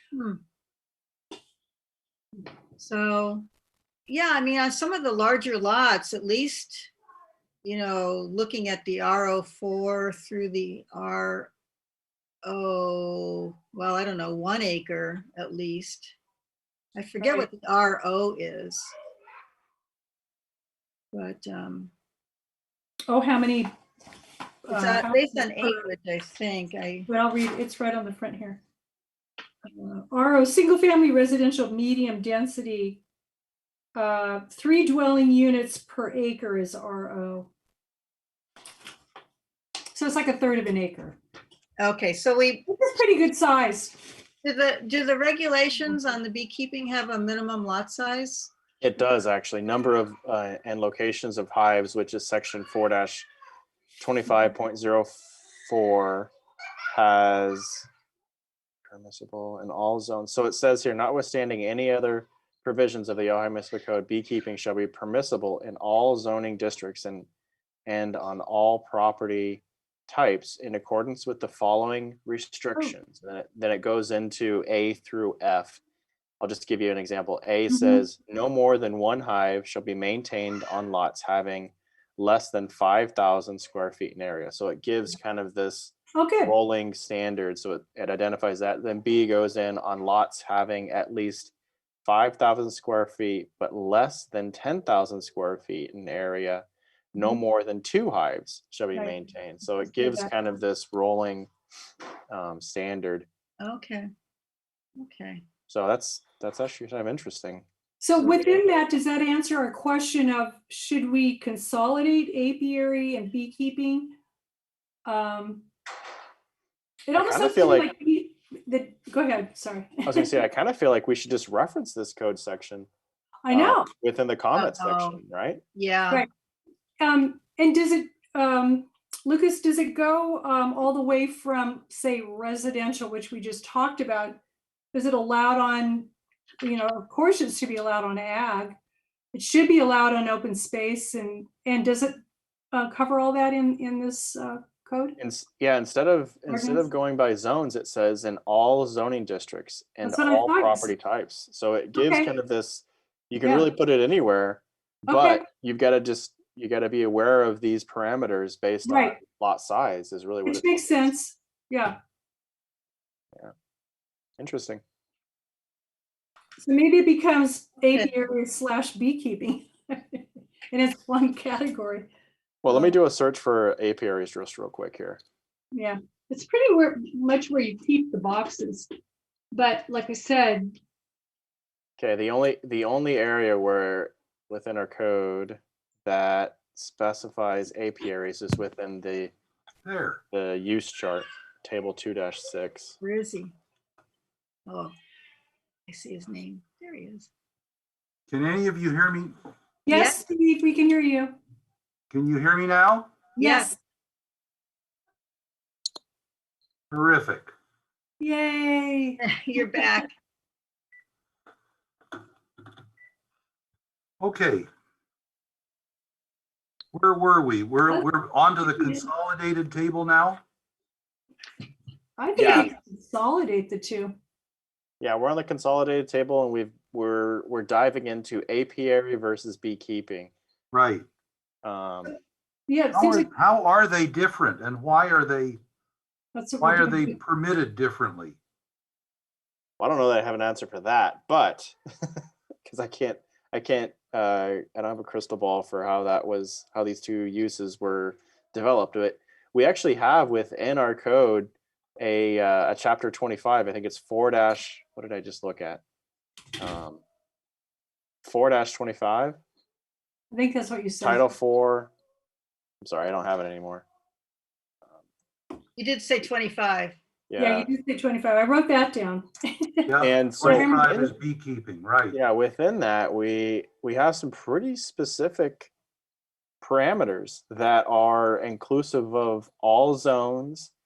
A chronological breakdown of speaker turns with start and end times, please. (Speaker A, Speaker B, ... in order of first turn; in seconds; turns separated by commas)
Speaker A: 0.1-0.4, Speaker A: 2.8-3.5, Speaker A: 4.1-6.9, Speaker A: 7.6-11.5, Speaker A: 12.4-16.1, Speaker A: 16.9-18.9, Speaker B: 17.2-17.5, Speaker A: 21.1-21.9, Speaker B: 23.1-23.7, Speaker B: 24.6-25.9, Speaker A: 24.7-27.1, Speaker B: 27.1-28.6, Speaker B: 29.8-33.0, Speaker B: 34.0-37.5, Speaker B: 39.9-41.2, Speaker A: 41.8-42.6, Speaker B: 42.7-44.0, Speaker A: 44.4-48.5, Speaker C: 48.8-53.3, Speaker C: 54.0-56.3, Speaker C: 56.9-57.9, Speaker C: 58.9-67.3, Speaker C: 67.9-75.8, Speaker C: 76.4-91.5, Speaker B: 77.7-78.0, Speaker B: 86.1-86.5, Speaker C: 92.0-101.5, Speaker B: 98.9-100.3, Speaker C: 102.3-103.3, Speaker A: 103.6-104.1, Speaker A: 105.0-105.4, Speaker C: 105.7-107.7, Speaker B: 108.0-114.2, Speaker B: 115.1-115.7, Speaker B: 117.1-120.4, Speaker C: 117.2-117.9, Speaker C: 120.1-122.9, Speaker B: 123.4-123.9, Speaker C: 123.5-125.6, Speaker A: 124.5-125.2, Speaker A: 125.8-126.2, Speaker B: 127.0-134.4, Speaker B: 134.9-136.1, Speaker B: 136.6-138.8, Speaker B: 139.3-142.2, Speaker B: 142.7-145.2, Speaker C: 145.2-160.8, Speaker B: 146.5-146.9, Speaker B: 150.0-150.9, Speaker B: 152.0-152.3, Speaker B: 153.4-153.7, Speaker B: 155.1-155.4, Speaker B: 158.8-159.2, Speaker B: 160.5-162.0, Speaker C: 164.4-164.8, Speaker B: 166.6-172.1, Speaker C: 172.6-175.2, Speaker B: 175.7-178.9, Speaker B: 179.5-180.7, Speaker C: 182.0-189.3, Speaker D: 189.8-190.2, Speaker C: 190.3-193.0, Speaker A: 193.0-193.5, Speaker A: 194.7-194.9, Speaker A: 195.9-197.3, Speaker D: 198.3-199.3, Speaker B: 199.8-201.3, Speaker A: 199.9-200.2, Speaker D: 202.1-203.2, Speaker B: 203.3-203.8, Speaker A: 203.4-203.7, Speaker D: 206.9-207.5, Speaker B: 208.2-209.2, Speaker A: 209.2-210.1, Speaker D: 214.2-214.7, Speaker D: 216.9-220.4, Speaker B: 218.6-219.0, Speaker B: 222.2-224.2, Speaker C: 222.3-222.7, Speaker C: 225.0-230.3, Speaker D: 230.7-231.1, Speaker C: 231.6-232.2, Speaker B: 232.7-233.3, Speaker D: 232.9-235.6, Speaker B: 236.3-237.2, Speaker D: 236.6-238.4, Speaker C: 239.8-255.8, Speaker C: 256.6-257.0, Speaker C: 258.2-259.4, Speaker B: 260.3-261.3, Speaker C: 261.0-261.9, Speaker C: 262.8-263.9, Speaker A: 265.8-267.0, Speaker C: 267.3-267.7, Speaker B: 267.4-271.0, Speaker D: 269.9-272.2, Speaker C: 270.0-271.1, Speaker C: 272.1-275.7, Speaker C: 276.6-280.7